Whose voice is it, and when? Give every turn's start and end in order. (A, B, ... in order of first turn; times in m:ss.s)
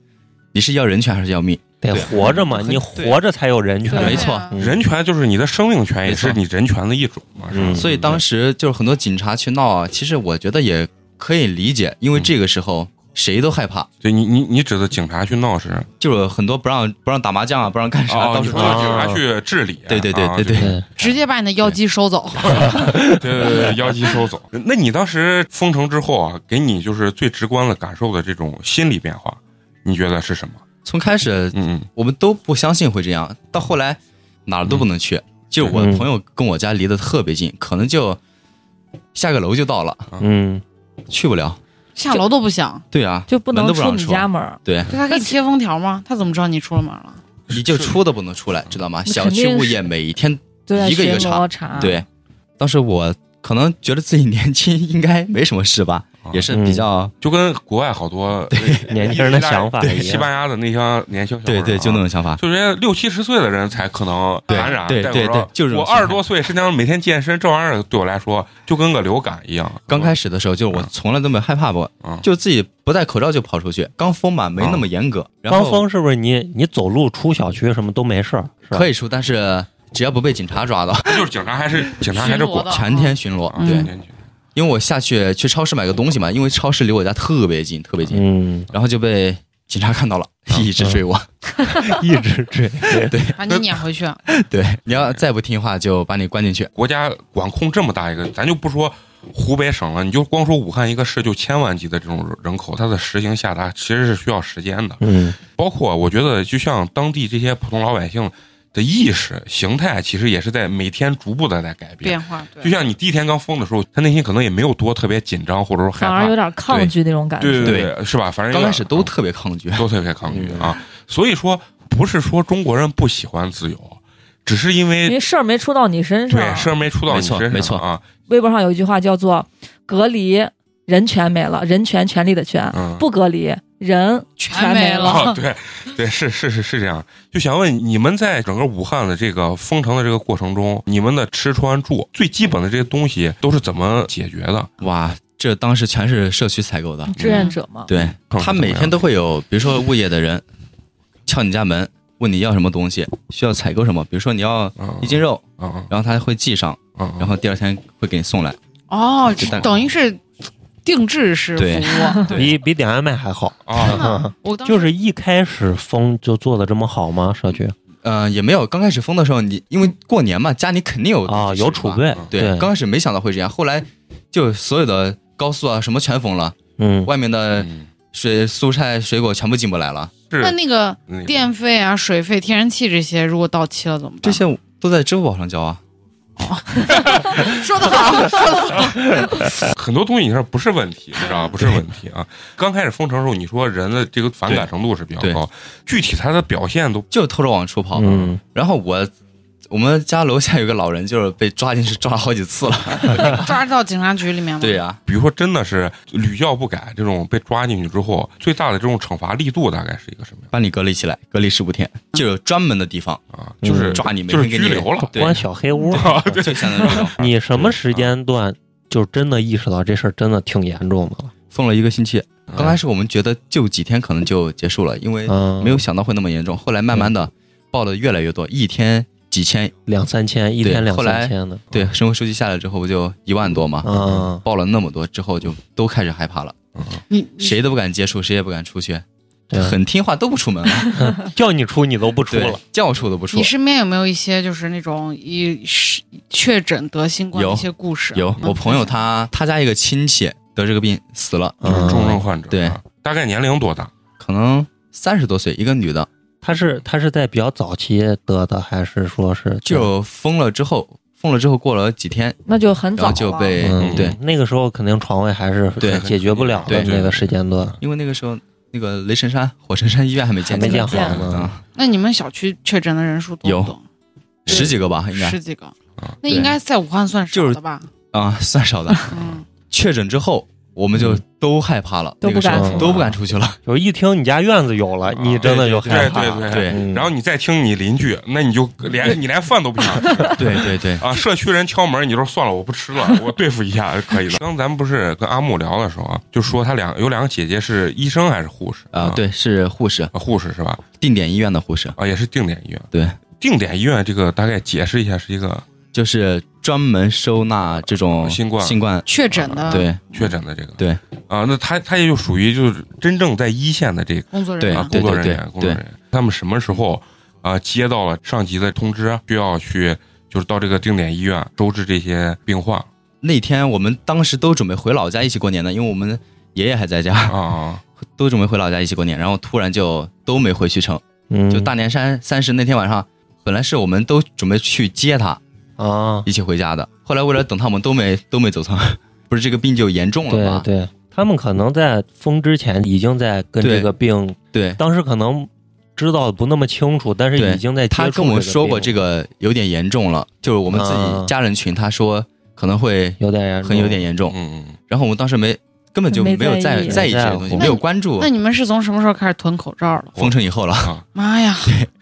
0:00.5-0:03.2 A
0:01.8-0:04.8 B
0:03.9-0:04.5 C
0:03.9-0:04.5 A
0:04.6-0:08.2 D
0:06.1-0:06.4 A
0:07.5-0:07.9 B
0:07.7-0:13.9 A
0:14.0-0:15.9 D
0:16.0-0:19.2 A
0:18.1-0:21.2 D
0:18.5-0:19.2 B
0:19.9-0:20.8 A
0:20.6-0:20.8 B
0:21.0-0:22.9 C
0:22.4-0:30.6 D
0:22.8-0:23.5 B
0:30.8-0:38.2 A
0:31.5-0:31.9 D
0:35.7-0:36.1 B
0:39.1-0:40.1 A
0:40.2-0:40.6 B
0:41.1-0:41.6 A
0:42.0-0:42.8 C
0:42.9-0:45.0 A
0:43.3-0:45.3 E
0:44.9-0:47.2 C
0:47.5-0:52.1 A
0:47.5-0:48.0 D
0:49.1-0:49.9 E
0:50.7-0:52.0 E
0:52.6-0:57.1 A
0:56.5-0:56.9 B
0:57.2-1:10.1 D
0:58.5-0:58.9 A
0:58.9-1:00.3 B
0:59.8-1:00.1 A
1:01.5-1:02.4 A
1:04.5-1:06.2 A
1:09.9-1:15.8 A
1:14.6-1:14.8 D
1:15.5-1:18.9 B
1:18.7-1:21.3 A
1:21.0-1:22.9 D
1:22.0-1:23.9 C
1:22.2-1:23.9 A
1:23.4-1:24.1 D
1:24.6-1:31.3 A
1:28.1-1:28.7 B
1:31.7-1:33.2 B
1:32.9-1:33.4 A
1:33.4-1:34.2 C
1:34.3-1:36.7 A
1:34.9-1:35.2 D
1:36.8-1:45.0 D
1:45.0-1:45.4 B
1:45.6-1:59.1 D
1:52.0-1:52.7 C
1:56.0-1:57.9 E
1:57.6-1:57.9 A
1:58.5-1:59.9 A
1:59.8-2:05.2 D
2:00.3-2:00.8 B
2:05.0-2:06.8 E
2:06.3-2:08.0 D
2:07.1-2:07.8 A
2:08.3-2:15.4 E
2:12.7-2:13.1 D
2:14.4-2:15.4 C
2:15.0-2:24.7 D
2:24.8-2:27.1 A
2:27.1-2:27.9 E
2:27.2-2:27.5 D
2:27.3-2:27.6 C
2:27.9-2:30.4 A
2:28.3-2:29.0 D
2:31.3-2:38.6 A
2:34.8-2:35.9 D
2:37.0-2:37.3 D
2:38.9-2:40.2 C
2:39.4-2:39.8 A
2:40.8-2:42.3 C
2:41.6-2:42.5 A
2:42.3-2:47.8 B
2:43.7-2:44.2 D
2:43.8-2:44.9 C
2:48.0-3:00.1 A
2:51.3-2:52.7 B
2:56.8-2:57.1 B
2:57.6-2:57.9 D
3:00.3-3:01.4 D
3:00.4-3:04.4 C
3:04.2-3:05.8 A
3:06.4-3:07.6 D
3:06.5-3:09.6 C
3:09.7-3:17.1 D
3:11.2-3:11.6 C
3:17.1-3:19.1 A
3:18.0-3:18.4 B
3:19.7-3:23.5 A
3:23.2-3:24.8 C
3:24.6-3:25.0 A
3:25.1-3:30.5 D
3:30.5-3:33.2 A
3:33.3-3:38.1 D
3:33.6-3:34.0 B
3:34.0-3:35.4 A
3:35.1-3:41.3 B
3:36.0-3:37.2 A
3:41.5-3:49.7 A
3:42.5-3:42.8 D
3:45.3-3:45.9 B
3:49.9-3:51.7 B
3:50.6-3:56.6 A
3:53.8-3:54.4 B
3:53.9-3:54.3 D
3:56.8-3:57.0 D
3:57.1-3:57.6 C
3:57.4-4:01.0 A
3:59.5-3:59.8 B
4:01.0-4:02.6 B
4:02.3-4:03.5 A
4:03.3-4:09.0 C
4:07.3-4:12.8 A
4:11.6-4:12.2 B
4:11.6-4:13.9 D
4:14.2-4:16.1 A
4:16.4-4:19.9 B
4:19.6-4:22.4 A
4:22.5-4:23.6 E
4:23.0-4:24.2 A
4:23.6-4:27.8 B
4:23.8-4:24.2 D
4:25.8-4:26.0 A
4:25.8-4:27.3 D
4:26.7-4:26.9 A
4:27.8-4:31.6 A
4:30.5-4:31.5 B
4:30.6-4:31.2 E
4:30.9-4:31.3 D
4:31.8-4:33.8 C
4:33.4-4:33.7 A
4:34.5-4:34.7 D
4:34.5-4:35.4 A
4:34.6-4:37.9 C
4:36.2-4:36.6 A
4:37.3-4:37.6 A
4:38.1-4:39.1 A
4:39.1-4:39.4 C
4:39.7-4:43.6 A
4:42.2-4:43.1 E
4:42.5-4:43.0 B
4:43.7-4:47.1 B
4:45.1-4:50.4 D
4:45.4-4:46.8 A
4:50.1-4:50.4 E
4:50.4-4:51.1 A
4:51.0-4:59.2 D
4:58.9-5:00.1 A
5:00.1-5:00.8 D
5:01.0-5:02.0 A
5:02.0-5:02.9 D
5:02.9-5:03.2 A
5:03.4-5:05.7 D
5:05.9-5:09.1 A
5:08.1-5:22.9 D
5:09.1-5:10.3 C
5:09.7-5:10.0 A
5:14.3-5:14.9 C
5:14.6-5:15.8 A
5:23.2-5:27.4 A
5:27.3-5:27.8 D
5:28.2-5:35.4 A
5:31.3-5:31.7 B
5:35.8-5:36.3 B
5:36.2-5:40.7 A
5:40.3-5:49.0 B
5:43.6-5:43.9 A
5:44.5-5:44.8 A
5:47.4-5:54.4 A
5:50.7-5:51.3 B
5:53.2-5:54.0 B
5:54.3-5:54.8 D
5:54.9-5:58.3 A
5:56.1-5:57.0 E
5:56.9-5:57.8 B
5:57.6-6:00.2 C
6:00.2-6:01.1 D
6:00.2-6:00.9 A
6:01.2-6:01.8 C
6:01.6-6:01.9 A